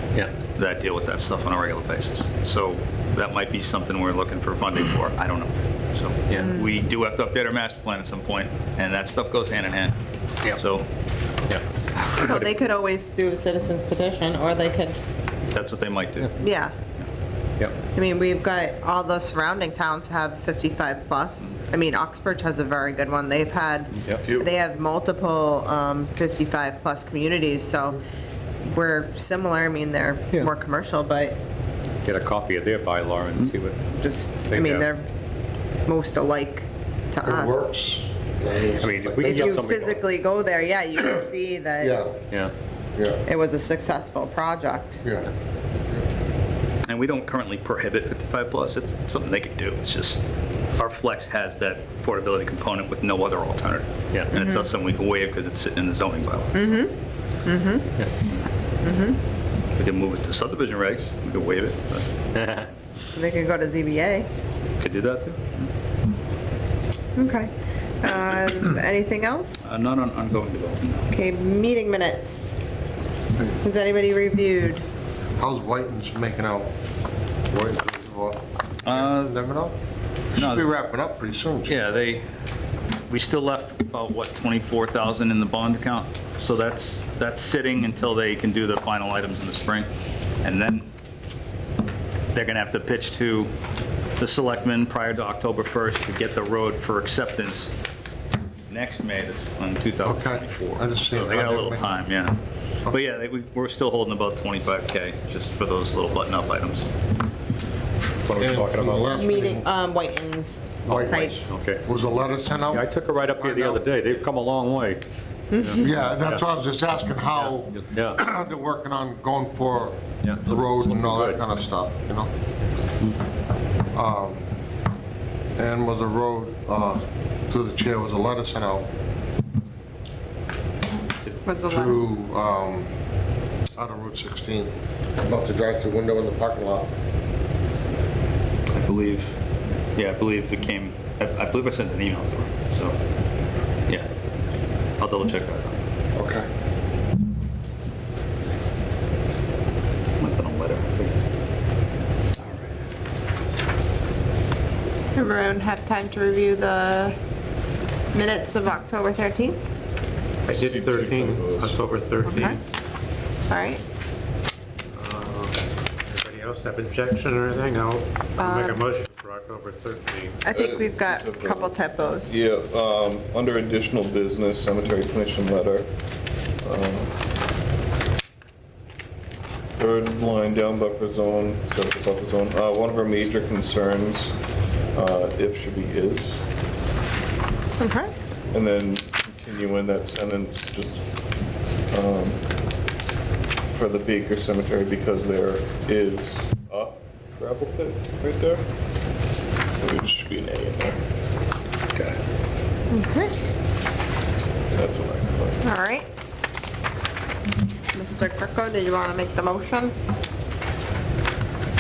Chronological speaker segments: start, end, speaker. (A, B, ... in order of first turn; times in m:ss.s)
0:00.6-0:10.0 A
0:06.4-0:06.7 B
0:10.5-0:10.9 A
0:12.1-0:12.4 C
0:12.2-0:15.0 B
0:15.5-0:16.4 A
0:16.4-0:16.8 B
0:17.9-0:28.0 B
0:24.0-0:24.2 C
0:24.2-0:24.5 D
0:28.6-0:31.4 B
0:32.0-0:33.8 C
0:34.0-0:35.1 B
0:34.5-0:34.9 C
0:35.9-0:37.7 B
0:37.2-0:39.6 E
0:38.8-0:40.0 C
0:39.2-0:42.0 B
0:41.8-0:42.1 E
0:43.0-0:43.2 E
0:43.3-0:45.0 B
0:45.0-0:45.3 E
0:46.8-0:50.2 A
0:50.8-0:56.8 A
0:54.3-0:54.7 B
0:56.6-0:56.9 B
0:57.4-0:57.9 B
0:58.8-0:59.2 B
0:59.8-1:02.1 A
1:02.4-1:02.7 C
1:03.1-1:04.3 B
1:04.8-1:05.7 A
1:07.2-1:09.7 B
1:09.6-1:11.1 A
1:11.1-1:12.6 B
1:13.6-1:14.8 B
1:15.4-1:16.7 E
1:17.5-1:19.8 E
1:18.8-1:19.4 A
1:20.3-1:22.0 E
1:20.4-1:20.7 A
1:21.7-1:22.3 A
1:23.1-1:29.9 A
1:30.4-1:30.9 A
1:32.3-1:33.5 A
1:34.2-1:37.7 A
1:38.7-1:46.9 A
1:40.0-1:41.9 E
1:48.2-1:49.3 C
1:48.3-1:49.7 E
1:49.1-1:51.5 B
1:50.9-1:51.8 C
1:50.9-1:53.8 E
1:52.7-1:55.0 C
1:55.5-1:55.8 B
1:55.8-2:02.3 E
1:57.3-1:58.2 C
2:00.2-2:01.4 C
2:03.9-2:04.4 E
2:05.6-2:08.9 E
2:11.4-2:12.0 B
2:11.7-2:12.9 E
2:13.8-2:14.7 E
2:15.2-2:16.9 E
2:18.7-2:19.4 A
2:20.0-2:23.0 A
2:25.0-2:25.8 A
2:26.1-2:26.5 E
2:30.2-2:31.2 A
2:32.4-2:32.7 A
2:35.2-2:37.2 B
2:38.1-2:39.6 B
2:40.5-2:41.8 D
2:40.5-2:42.6 F
2:42.3-2:42.6 B
2:43.5-2:43.8 B
2:44.9-2:50.5 F
2:48.4-2:48.8 B
2:50.4-2:52.3 B
2:50.5-2:55.9 D
2:56.6-2:57.1 D
2:59.8-3:04.4 D
3:04.9-3:06.4 D
3:07.8-3:08.1 B
3:08.5-3:11.1 D
3:11.9-3:12.4 D
3:13.6-3:18.6 D
3:19.8-3:21.0 D
3:22.9-3:23.3 B
3:24.7-3:25.6 D
3:25.6-3:26.1 B
3:27.9-3:29.9 B